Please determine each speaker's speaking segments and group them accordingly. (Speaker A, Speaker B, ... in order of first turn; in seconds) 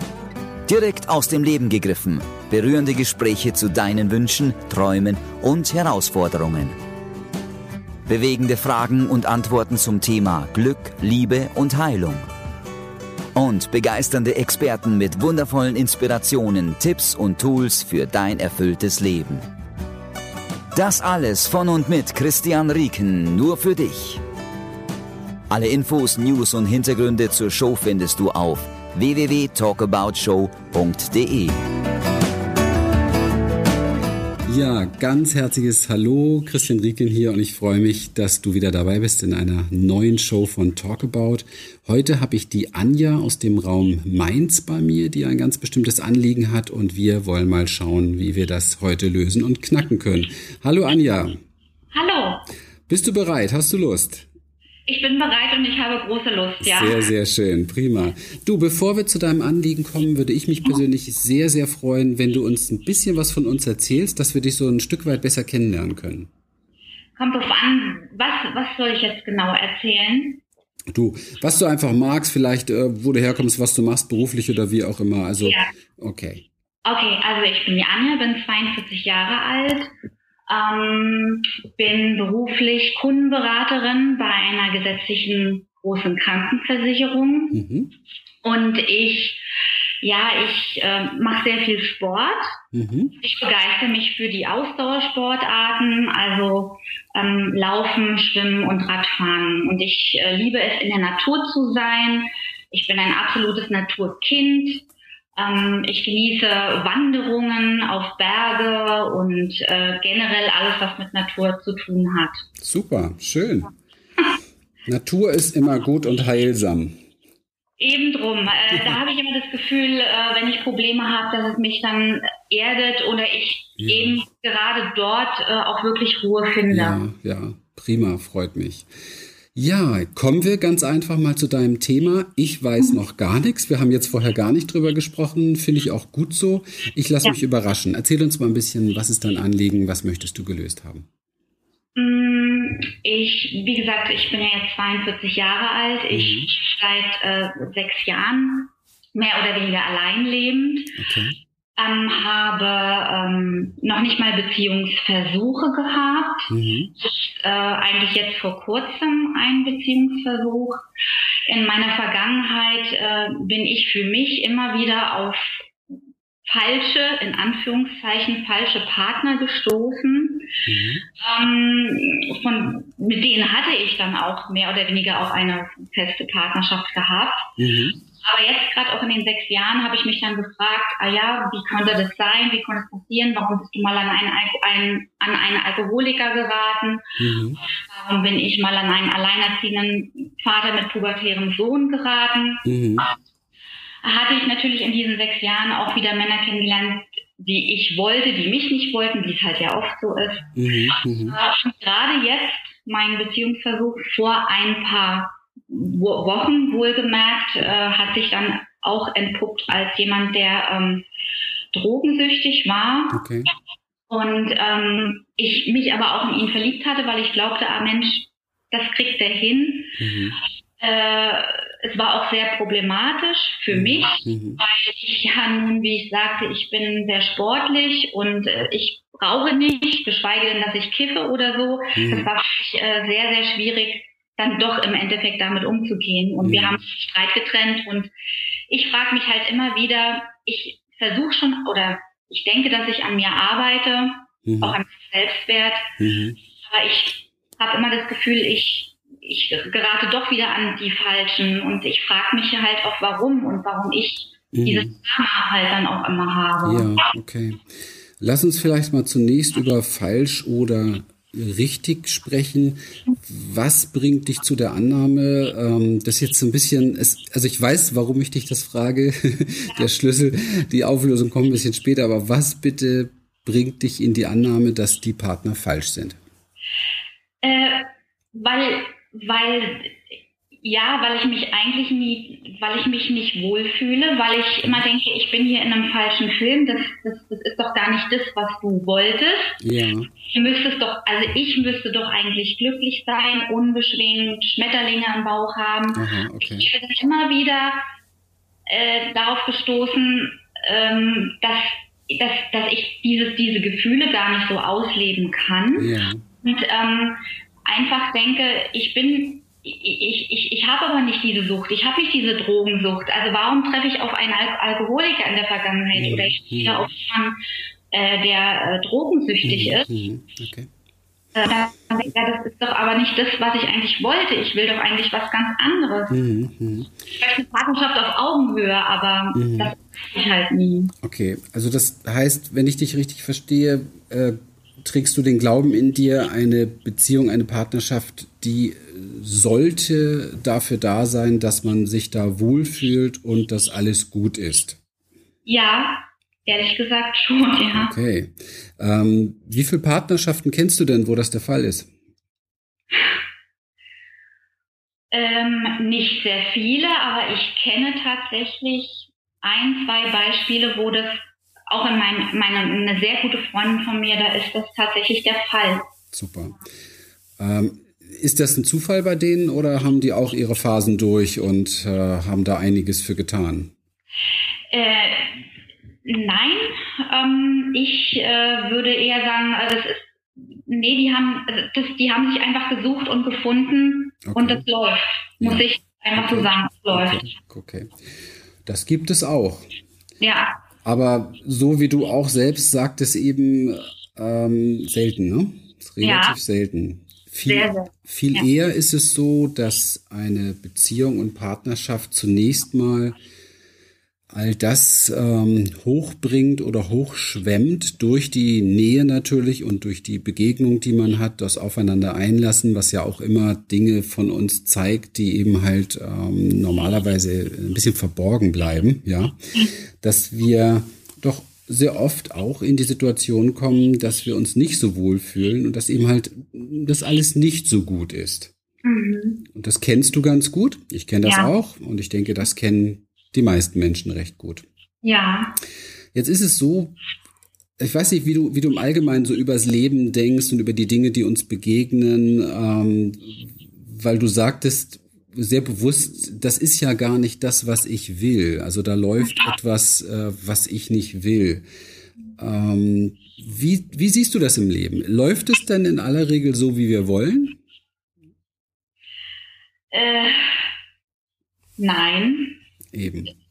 Speaker A: 0.7-6.8, 8.1-12.3, 13.3-19.5, 20.7-24.2, 25.5-31.6
Speaker B: 34.5-51.3, 52.9-54.3, 56.6-66.3, 70.9-76.5, 87.5-87.9, 92.7-93.1, 112.6-113.7, 114.8-117.0, 118.7-119.0, 123.8-124.2, 126.7-128.9, 129.5-141.1, 146.1-146.5, 151.0-151.4, 156.5-156.9, 170.7-171.1, 177.6-178.0, 187.2-187.6, 192.7-193.1, 200.6-201.4, 213.1-213.5, 220.0-220.4, 223.7-224.6, 231.9-232.3, 236.4-236.8, 244.4-244.8, 246.0-246.4, 254.5-254.9, 256.6-257.7, 258.2-276.2, 289.6-290.1, 295.9-296.7, 305.8-306.2, 315.9-316.9, 319.4-320.7, 326.1-327.0, 329.4-329.8, 331.0-344.8, 347.7-351.9, 366.1-366.6, 367.4-373.7, 384.2-384.6, 385.4-388.0, 388.6-389.7, 390.8-403.2, 404.3-428.5, 429.5-434.6, 436.1-437.0, 437.8-451.6, 452.4-457.6, 462.9-463.3
Speaker C: 51.9-52.5, 54.9-57.0, 67.2-70.4, 75.4-75.7, 76.8-79.9, 80.5-87.6, 88.4-89.4, 90.0-92.6, 93.2-112.4, 117.8-127.0, 142.0-150.9, 151.8-160.8, 161.5-165.7, 166.5-170.5, 171.2-177.5, 178.2-187.0, 187.7-192.6, 194.0-200.5, 201.3-211.1, 211.7-213.2, 214.1-220.0, 220.8-238.1, 238.7-245.9, 246.7-256.9, 277.4-289.6, 290.3-297.8, 298.7-305.9, 306.4-317.4, 317.9-319.9, 321.4-326.2, 327.2-330.9, 345.5-347.9, 355.1-365.9, 374.7-375.4, 376.1-387.2, 390.2-390.6, 396.0-396.4, 397.5-398.5, 428.8-429.4, 431.2-431.5, 435.0-435.6, 459.9-460.7, 461.8-462.6